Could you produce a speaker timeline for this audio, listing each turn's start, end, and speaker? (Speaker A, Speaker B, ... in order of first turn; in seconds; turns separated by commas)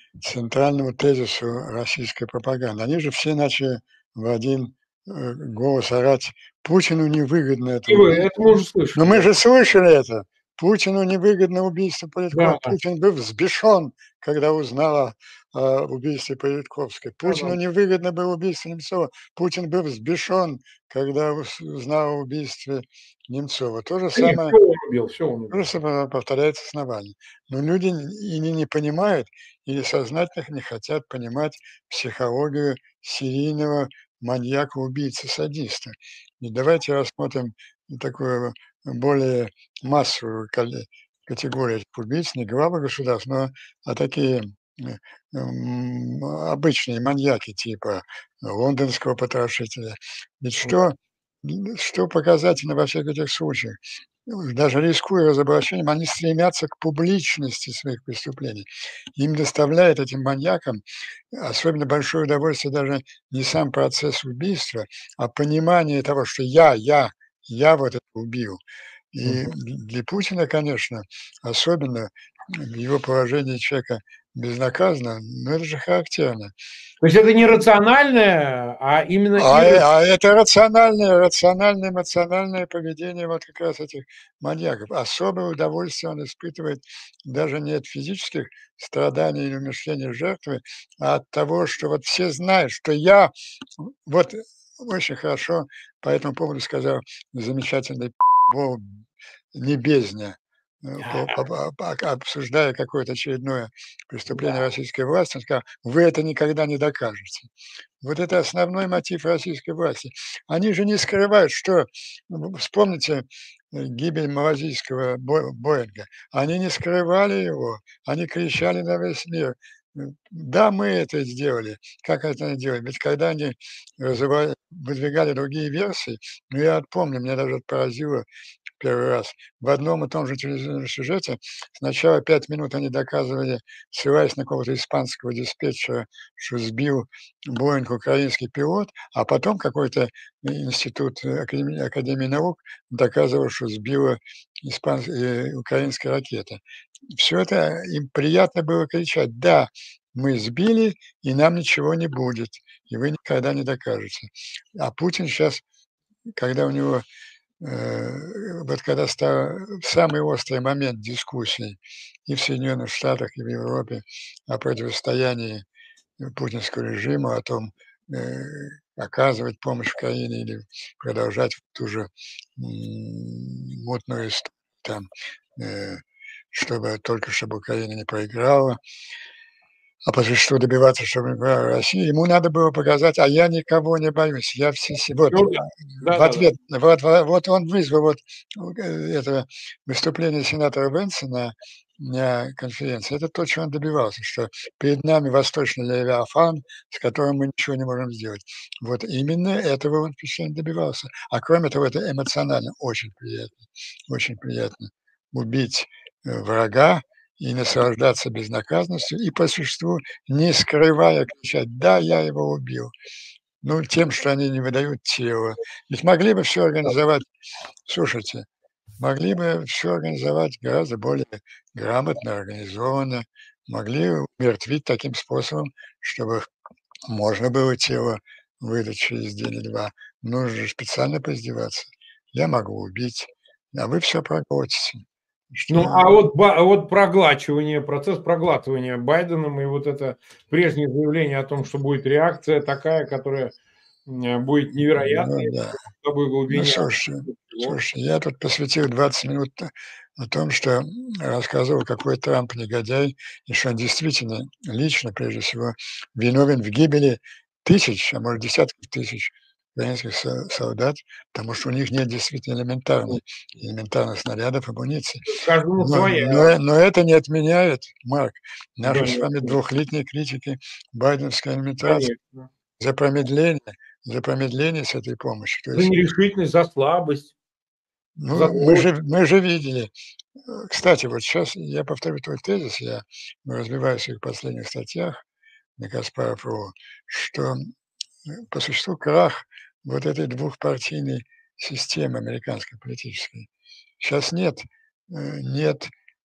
Speaker A: 0.2-8.3, Speaker B: 7.9-9.3, Speaker A: 8.9-24.6, Speaker B: 12.3-12.8, Speaker B: 17.2-17.6, Speaker B: 24.1-25.6, Speaker A: 25.5-68.6, Speaker A: 69.1-76.5, Speaker B: 77.0-79.9, Speaker A: 79.4-99.0, Speaker A: 99.5-107.5, Speaker B: 101.0-101.4, Speaker B: 104.3-104.7, Speaker A: 108.0-128.2, Speaker A: 128.8-155.6, Speaker A: 156.4-157.0, Speaker A: 157.6-165.6, Speaker A: 166.2-178.8, Speaker A: 180.1-212.9, Speaker B: 185.3-186.5, Speaker A: 213.6-217.2, Speaker A: 217.9-218.4, Speaker A: 219.0-226.5, Speaker A: 227.1-236.1, Speaker B: 235.7-243.5, Speaker B: 244.1-247.8, Speaker A: 244.9-245.8, Speaker A: 246.5-272.1, Speaker B: 265.3-266.6, Speaker B: 268.9-269.6, Speaker B: 271.8-272.5, Speaker A: 272.8-275.9, Speaker B: 275.7-277.4, Speaker A: 278.2-279.9, Speaker B: 278.3-278.9, Speaker A: 280.5-285.2, Speaker A: 285.8-287.6, Speaker A: 288.3-293.5, Speaker A: 294.0-295.9